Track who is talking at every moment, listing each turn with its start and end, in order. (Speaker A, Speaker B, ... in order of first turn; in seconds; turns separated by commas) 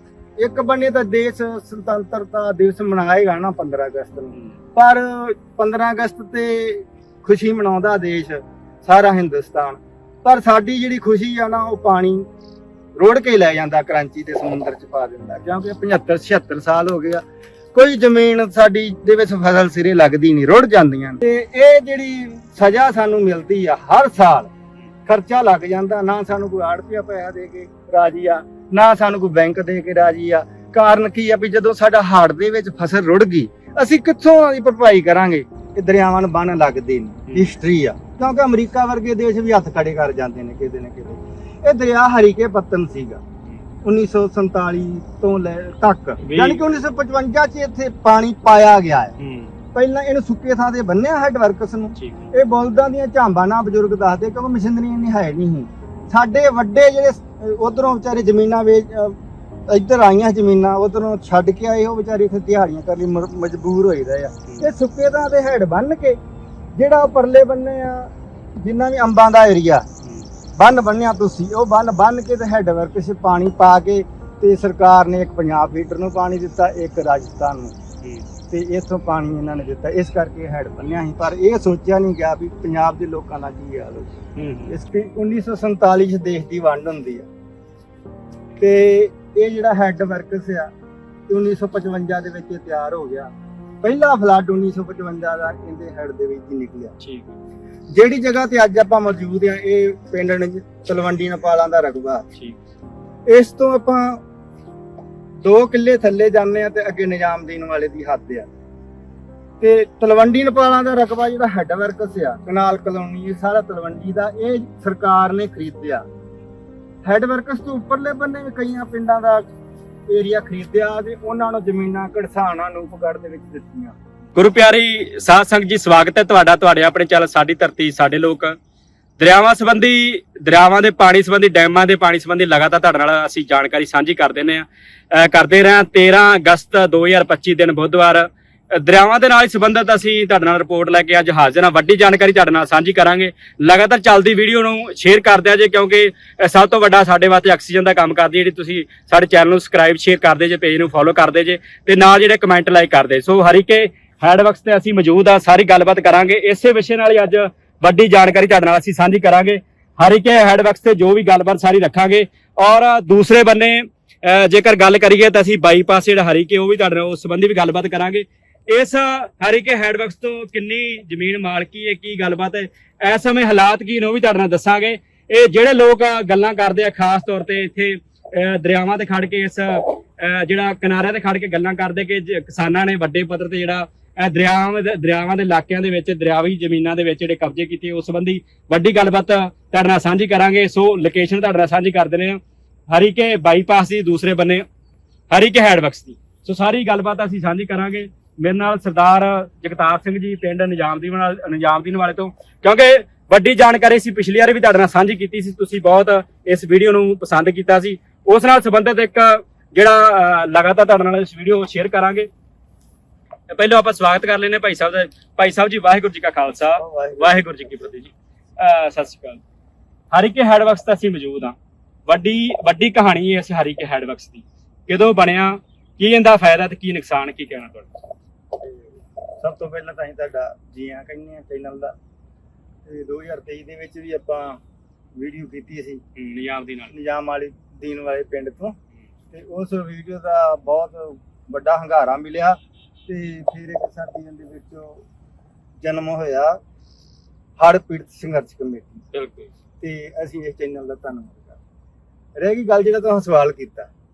Speaker A: 0.4-12.2, Speaker A: 13.0-17.2, Speaker A: 17.7-24.5, Speaker A: 25.1-43.2, Speaker A: 43.8-49.1, Speaker B: 46.2-46.6, Speaker B: 49.2-49.5, Speaker A: 49.7-59.2, Speaker B: 52.0-52.2, Speaker A: 59.7-66.2, Speaker A: 66.7-69.8, Speaker B: 70.0-70.3, Speaker A: 70.6-77.8, Speaker A: 78.5-87.3, Speaker B: 84.3-84.7, Speaker A: 88.6-90.7, Speaker A: 91.3-93.3, Speaker A: 93.8-96.9, Speaker B: 97.0-97.3, Speaker A: 97.9-102.2, Speaker A: 103.3-104.2, Speaker A: 105.4-108.5, Speaker A: 109.6-116.0, Speaker A: 117.0-119.4, Speaker A: 120.1-124.0, Speaker B: 124.3-128.6, Speaker B: 129.2-194.6, Speaker B: 195.3-212.3, Speaker B: 213.5-219.4, Speaker A: 216.8-217.4, Speaker B: 220.1-221.5, Speaker B: 222.1-228.0, Speaker A: 229.4-231.9, Speaker A: 232.8-234.6, Speaker A: 235.2-236.0, Speaker B: 236.2-236.9, Speaker A: 236.9-238.8, Speaker A: 239.3-245.0, Speaker A: 245.8-246.6, Speaker A: 247.6-249.0, Speaker B: 249.1-249.5, Speaker A: 249.8-251.6, Speaker A: 252.3-253.9